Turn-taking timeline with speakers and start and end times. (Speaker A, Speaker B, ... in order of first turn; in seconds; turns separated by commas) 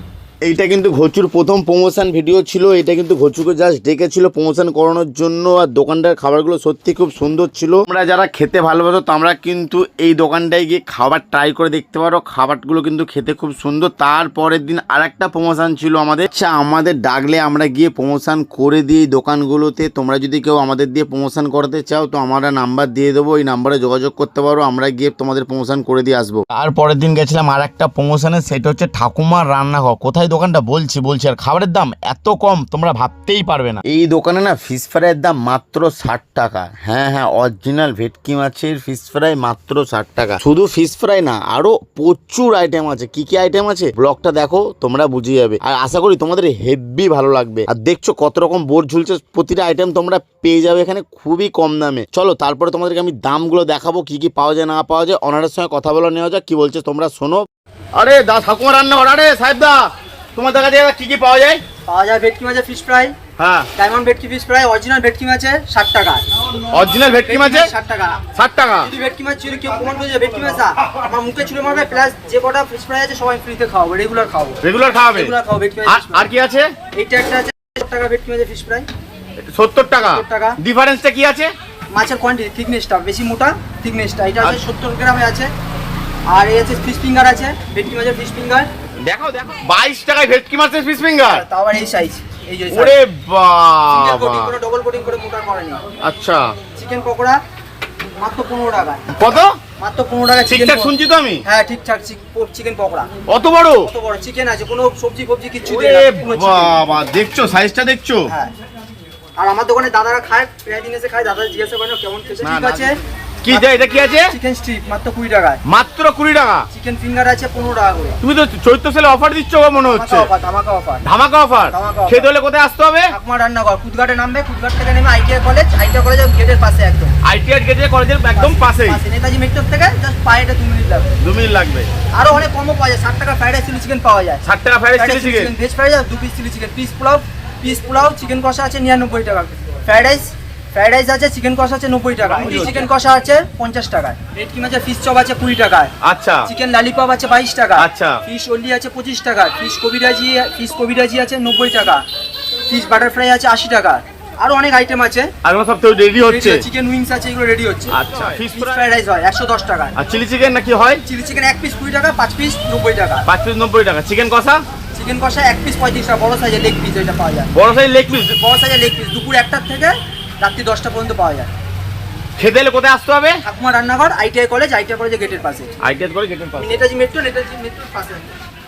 Speaker A: 0.4-61.6, Speaker B: 61.9-63.1, Speaker A: 63.4-63.7, Speaker B: 63.7-66.2, Speaker A: 66.7-67.7, Speaker B: 67.3-68.2, Speaker A: 68.3-68.9, Speaker B: 68.8-76.3, Speaker A: 74.6-76.7, Speaker B: 76.9-78.9, Speaker A: 79.5-81.5, Speaker B: 80.0-80.6, Speaker B: 81.9-85.5, Speaker B: 86.3-88.7, Speaker A: 89.0-91.4, Speaker B: 91.2-93.0, Speaker A: 92.7-94.5, Speaker B: 93.9-95.8, Speaker A: 96.0-96.5, Speaker B: 96.8-97.4, Speaker B: 98.2-99.0, Speaker A: 99.1-99.5, Speaker B: 99.8-103.1, Speaker A: 100.5-101.4, Speaker A: 103.3-103.9, Speaker B: 103.8-106.8, Speaker A: 105.6-108.3, Speaker B: 108.3-108.5, Speaker B: 109.4-115.6, Speaker A: 112.4-114.3, Speaker A: 115.7-116.7, Speaker B: 116.7-118.2, Speaker A: 118.2-120.3, Speaker B: 119.8-121.0, Speaker A: 121.0-123.1, Speaker B: 121.7-122.3, Speaker B: 123.1-127.2, Speaker A: 127.2-129.0, Speaker B: 128.3-131.1, Speaker A: 131.2-131.9, Speaker B: 132.1-134.4, Speaker A: 134.4-135.5, Speaker B: 134.9-145.9, Speaker A: 142.2-142.9, Speaker A: 146.0-146.5, Speaker B: 146.4-152.0, Speaker A: 147.8-148.2, Speaker B: 152.7-155.3, Speaker A: 155.4-156.7, Speaker B: 156.2-159.9, Speaker A: 157.9-158.8, Speaker A: 159.9-161.0, Speaker B: 161.0-163.2, Speaker A: 163.2-164.6, Speaker B: 164.9-167.5, Speaker A: 167.5-168.4, Speaker B: 168.1-171.5, Speaker A: 172.4-173.4, Speaker B: 173.4-175.7, Speaker A: 175.8-176.8, Speaker B: 176.6-178.4